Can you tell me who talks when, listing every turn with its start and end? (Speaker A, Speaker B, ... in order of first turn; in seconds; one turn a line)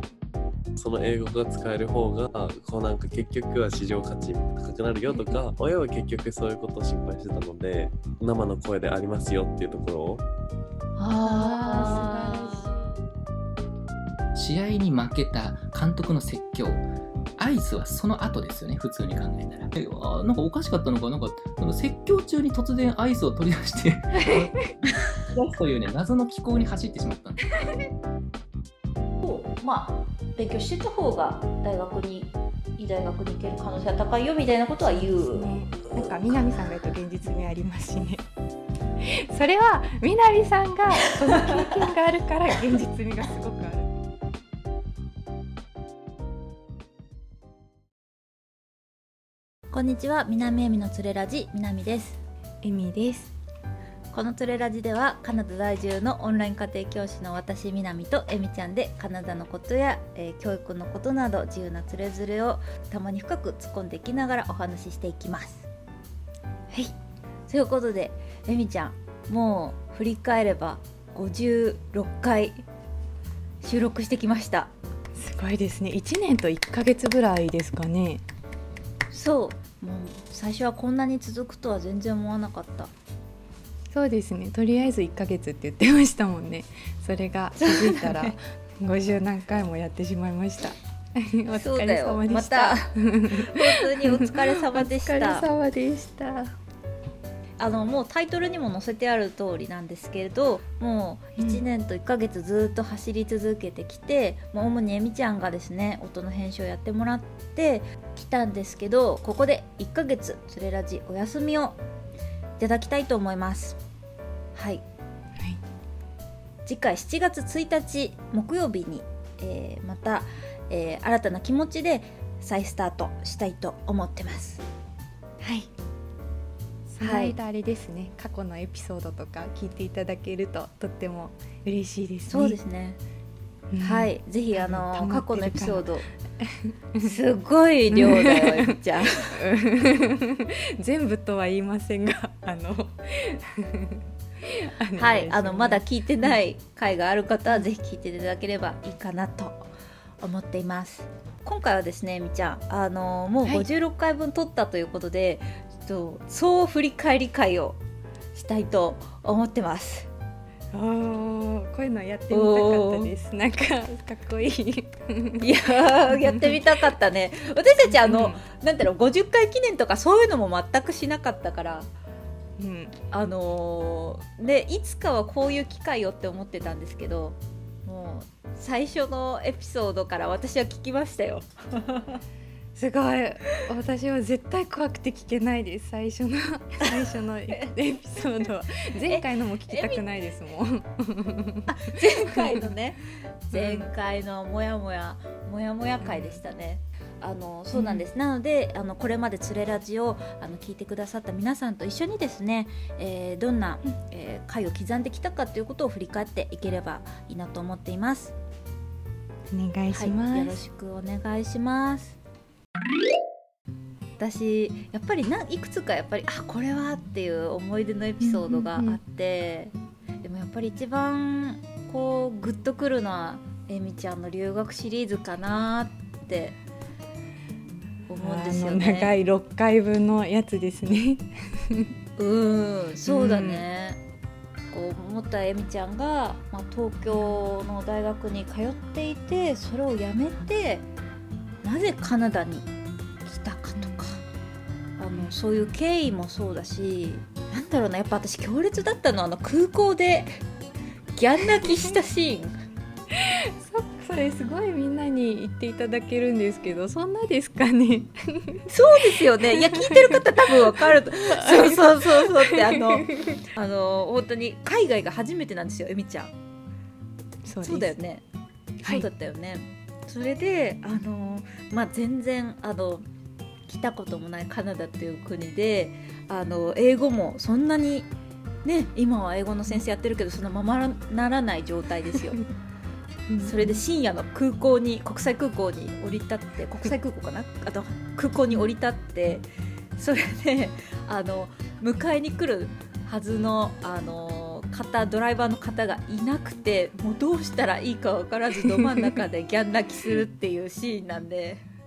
Speaker A: 0.8-10.2
Speaker B: 11.0-12.7
Speaker C: 11.1-12.7
Speaker D: 14.3-16.8
Speaker D: 17.4-27.5
Speaker B: 24.2-24.6
Speaker C: 29.2-35.5
Speaker B: 34.9-38.2
Speaker B: 39.0-44.0
Speaker C: 49.7-52.2
Speaker B: 52.6-53.3
Speaker C: 54.1-65.7
Speaker C: 67.5-72.6
Speaker C: 73.6-74.7
Speaker B: 75.1-78.2
Speaker C: 79.1-82.9
Speaker B: 83.9-96.5
Speaker C: 87.6-88.3
Speaker C: 91.5-95.5
Speaker C: 97.6-111.8
Speaker B: 101.4-101.6
Speaker C: 112.6-113.8
Speaker C: 114.5-114.8
Speaker C: 116.7-124.6
Speaker C: 125.4-125.7
Speaker B: 126.9-132.6
Speaker C: 127.0-127.3
Speaker C: 132.3-133.0
Speaker B: 133.7-137.2
Speaker C: 133.8-136.1
Speaker C: 137.0-139.4
Speaker B: 137.9-146.4
Speaker C: 145.0-149.7
Speaker C: 150.2-157.8
Speaker C: 158.3-160.1
Speaker B: 160.7-166.6
Speaker C: 162.3-163.1
Speaker C: 165.4-171.9
Speaker B: 167.8-168.4
Speaker B: 172.6-172.9
Speaker C: 173.1-182.2
Speaker B: 182.8-192.6
Speaker C: 189.0-190.0
Speaker C: 191.7-208.3
Speaker B: 193.5-193.9
Speaker B: 196.0-196.4
Speaker B: 197.7-198.0
Speaker B: 209.5-210.6
Speaker C: 209.9-212.2
Speaker C: 214.2-226.6
Speaker B: 218.2-219.0
Speaker C: 228.1-229.1
Speaker B: 228.2-231.9
Speaker C: 232.2-234.0
Speaker B: 233.1-233.6
Speaker C: 234.7-240.8
Speaker B: 237.1-237.3
Speaker C: 241.6-242.7
Speaker C: 243.2-244.2
Speaker B: 243.8-244.2
Speaker C: 245.0-250.4
Speaker B: 245.2-245.7
Speaker C: 251.1-252.5
Speaker B: 251.6-251.9
Speaker B: 253.1-263.4
Speaker C: 258.7-266.3
Speaker B: 267.4-268.0
Speaker C: 267.6-268.2
Speaker C: 268.8-273.1
Speaker C: 273.7-278.1
Speaker C: 278.6-282.4
Speaker B: 283.3-283.8
Speaker C: 283.4-289.4
Speaker C: 289.9-301.6